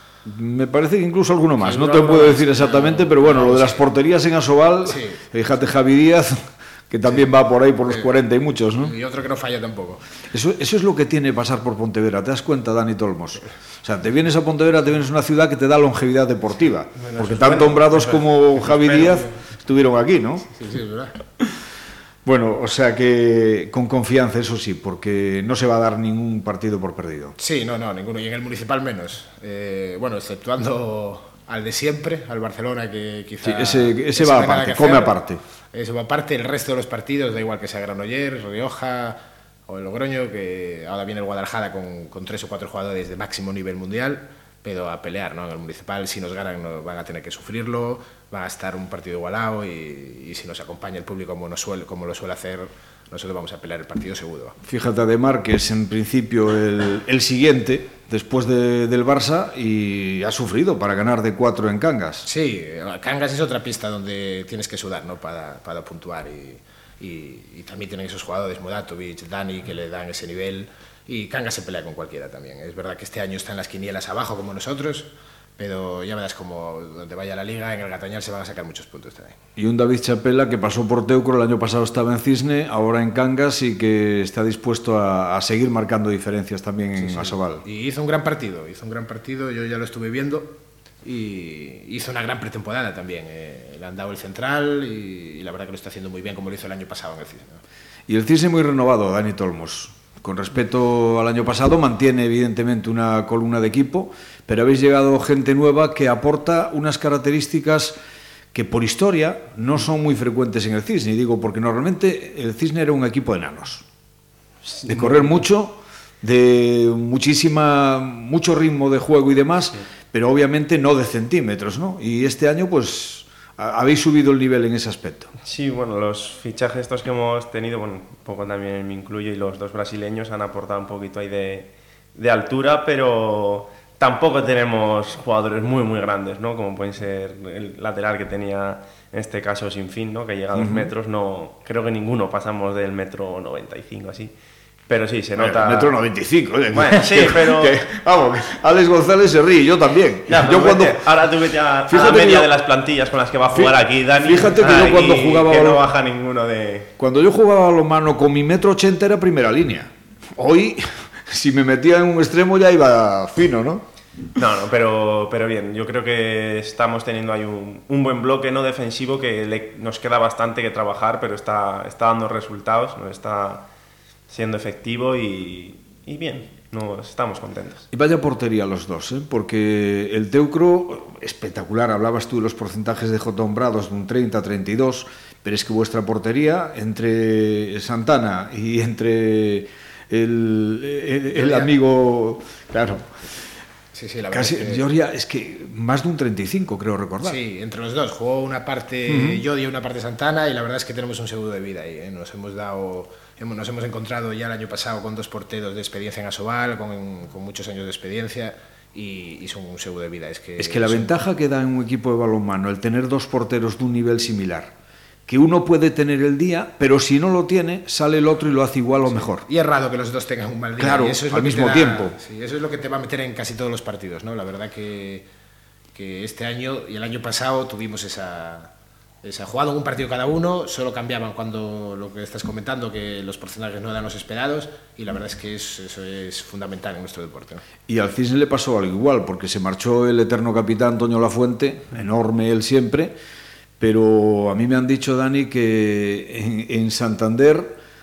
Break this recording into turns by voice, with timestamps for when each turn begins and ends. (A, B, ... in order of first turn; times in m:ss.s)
0:00.2-0:08.9 A
0:01.6-0:03.9 B
0:04.9-0:05.2 B
0:08.8-0:10.0 B
0:10.3-0:20.5 A
0:17.2-0:18.0 C
0:17.3-0:17.7 B
0:20.5-0:21.1 B
0:22.2-0:27.4 A
0:27.4-0:35.2 B
0:33.4-0:35.4 A
0:35.7-0:54.6 B
0:54.6-1:02.3 A
1:02.2-1:19.4 B
1:19.6-1:27.6 A
1:27.0-1:37.6 B
1:38.1-1:48.0 A
1:48.5-1:53.8 A
1:54.7-1:55.3 C
1:54.8-2:05.3 A
2:05.4-2:24.3 C
2:20.6-2:20.9 A
2:24.9-2:26.0 C
2:25.4-2:31.1 A
2:26.7-2:27.8 C
2:30.3-2:36.9 C
2:31.9-2:32.5 A
2:33.5-2:35.8 A
2:37.0-2:43.8 A
2:44.4-2:53.7 C
2:54.3-2:57.9 C
2:57.9-3:13.1 A
3:11.3-3:11.7 B
3:13.9-3:14.8 B
3:14.3-3:17.4 A
3:17.2-3:31.1 B
3:19.1-3:19.4 A
3:30.6-3:34.7 A
3:35.3-3:39.5 A
3:39.1-3:45.3 B
3:40.8-3:42.2 A
3:45.9-3:48.7 B
3:49.2-3:57.6 B
3:57.9-4:03.2 A
4:03.8-4:07.8 A